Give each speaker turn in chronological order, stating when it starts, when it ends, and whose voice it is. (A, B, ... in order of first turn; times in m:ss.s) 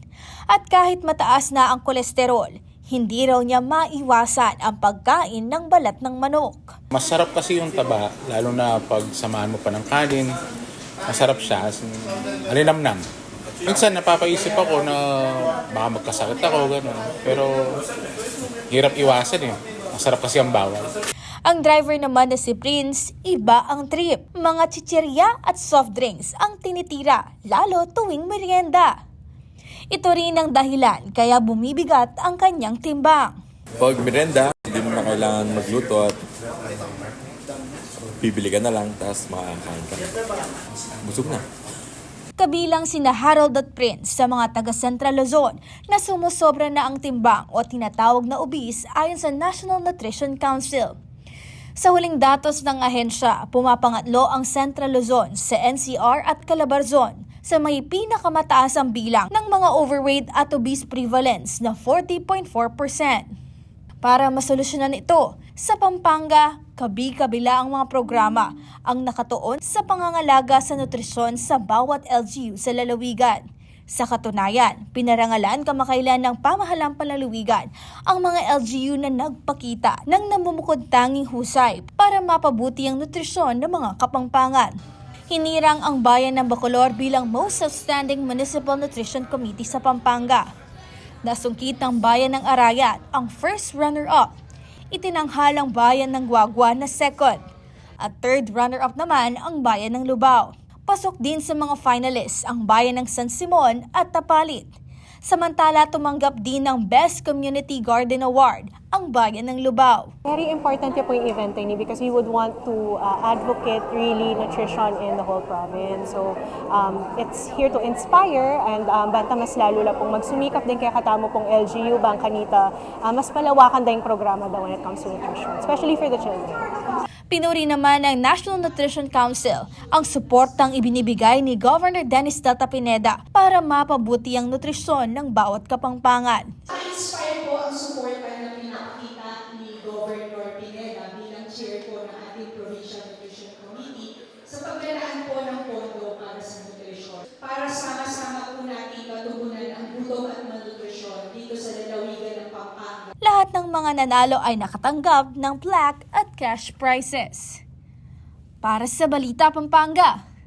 0:00.5-0:06.8 A
0:06.9-0:10.4 B
0:11.1-0:11.9 B
0:12.5-0:13.1 B
0:13.6-0:17.8 B
0:18.7-0:20.9 B
0:21.4-0:29.0 A
0:29.9-0:33.4 A
0:33.8-0:36.2 C
0:38.2-0:40.1 C
0:41.0-0:41.4 C
0:42.4-0:51.0 A
0:51.8-1:03.3 A
1:04.0-1:24.7 A
1:25.3-1:30.5 A
1:31.2-1:34.3 A
1:34.9-1:37.4 A
1:38.0-1:50.1 A
1:50.3-2:06.7 D
2:07.3-2:16.6 A
2:16.7-2:33.1 E
2:33.2-2:37.6 A
2:38.6-2:40.2 A